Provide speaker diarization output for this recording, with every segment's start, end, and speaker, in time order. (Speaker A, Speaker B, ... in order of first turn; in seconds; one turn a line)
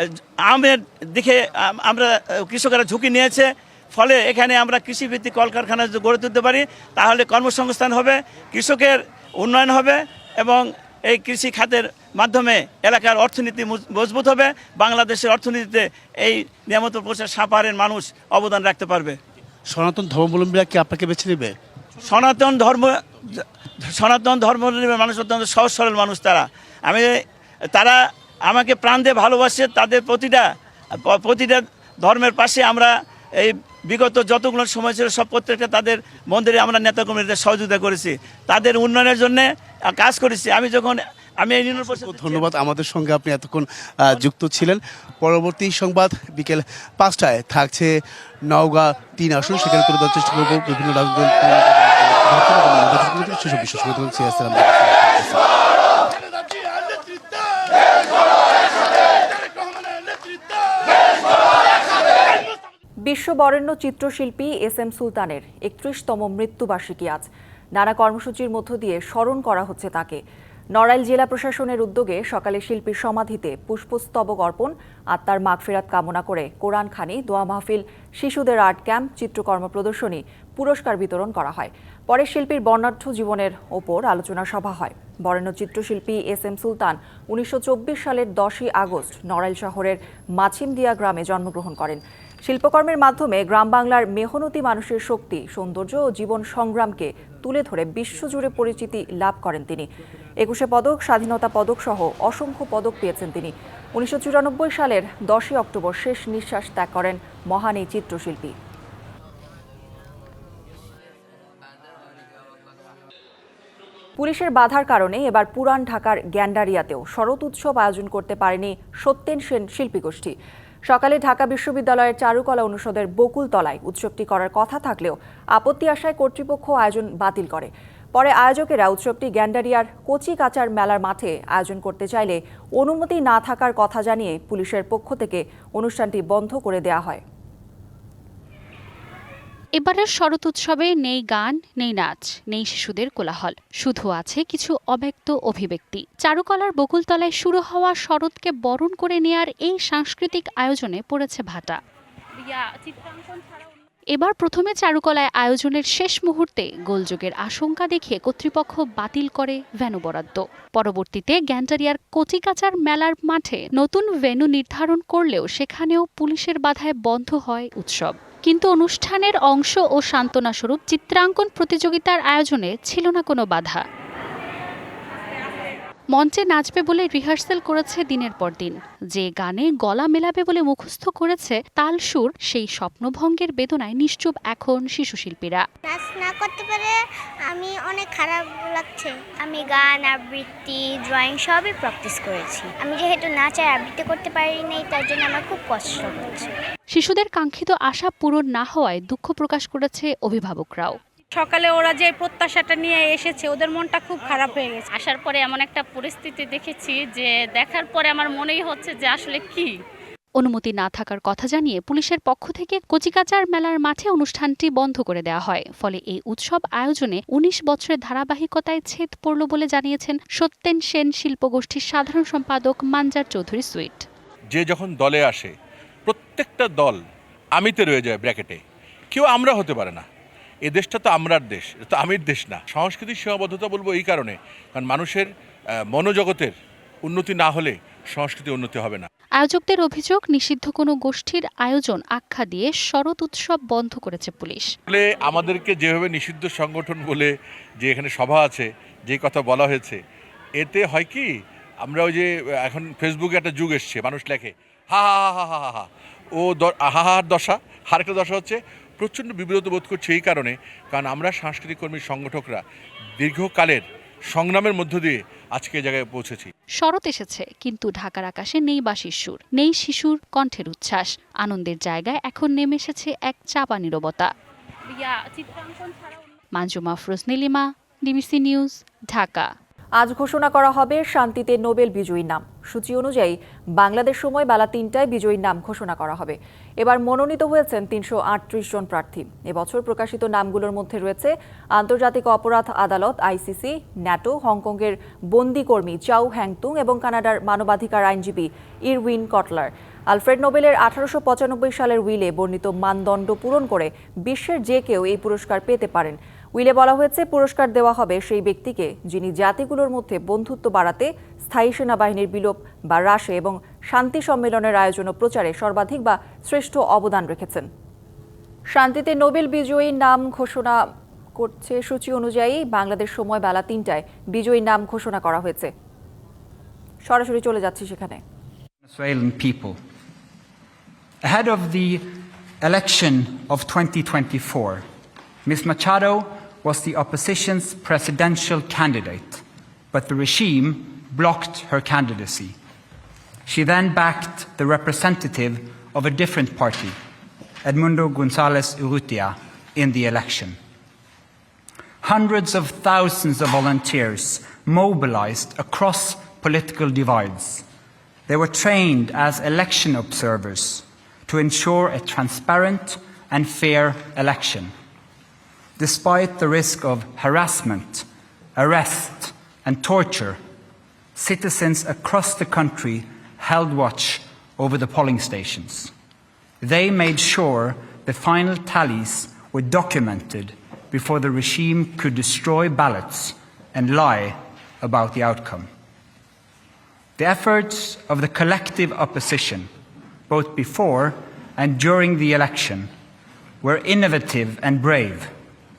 Speaker A: 0.5-19.2
Speaker B: 19.7-21.5
Speaker A: 22.1-22.9
Speaker A: 23.9-27.1
Speaker A: 28.5-30.4
Speaker A: 31.1-32.9
Speaker A: 33.4-42.5
Speaker B: 41.7-47.9
Speaker B: 48.5-55.4
Speaker C: 63.0-70.2
Speaker C: 70.8-99.9
Speaker C: 100.4-108.5
Speaker C: 114.2-120.3
Speaker C: 120.9-137.2
Speaker D: 139.8-151.8
Speaker E: 152.4-153.7
Speaker D: 154.1-173.8
Speaker D: 176.1-185.6
Speaker F: 185.9-186.9
Speaker F: 187.5-196.5
Speaker D: 196.9-201.0
Speaker E: 201.3-209.7
Speaker D: 210.4-224.0
Speaker G: 224.5-225.5
Speaker G: 226.1-227.0
Speaker G: 227.6-228.6
Speaker G: 229.1-230.1
Speaker G: 230.7-235.3
Speaker G: 235.9-239.1
Speaker D: 239.4-244.7
Speaker G: 244.9-250.0
Speaker G: 250.6-251.3
Speaker G: 251.8-262.6
Speaker G: 263.2-266.5
Speaker D: 266.8-274.3
Speaker E: 274.9-276.1
Speaker D: 276.5-279.5
Speaker C: 280.0-317.7
Speaker C: 318.7-320.8
Speaker C: 321.4-325.7
Speaker C: 327.1-328.2
Speaker H: 328.9-329.8
Speaker H: 331.2-332.0
Speaker H: 332.6-334.8
Speaker H: 335.4-342.6
Speaker H: 343.4-346.9
Speaker H: 347.6-350.6
Speaker H: 352.0-357.6
Speaker H: 358.3-364.7
Speaker H: 365.8-368.0
Speaker H: 368.6-370.4
Speaker H: 371.1-375.9
Speaker H: 376.6-385.7
Speaker H: 387.2-389.7
Speaker H: 390.3-392.9
Speaker H: 393.6-395.3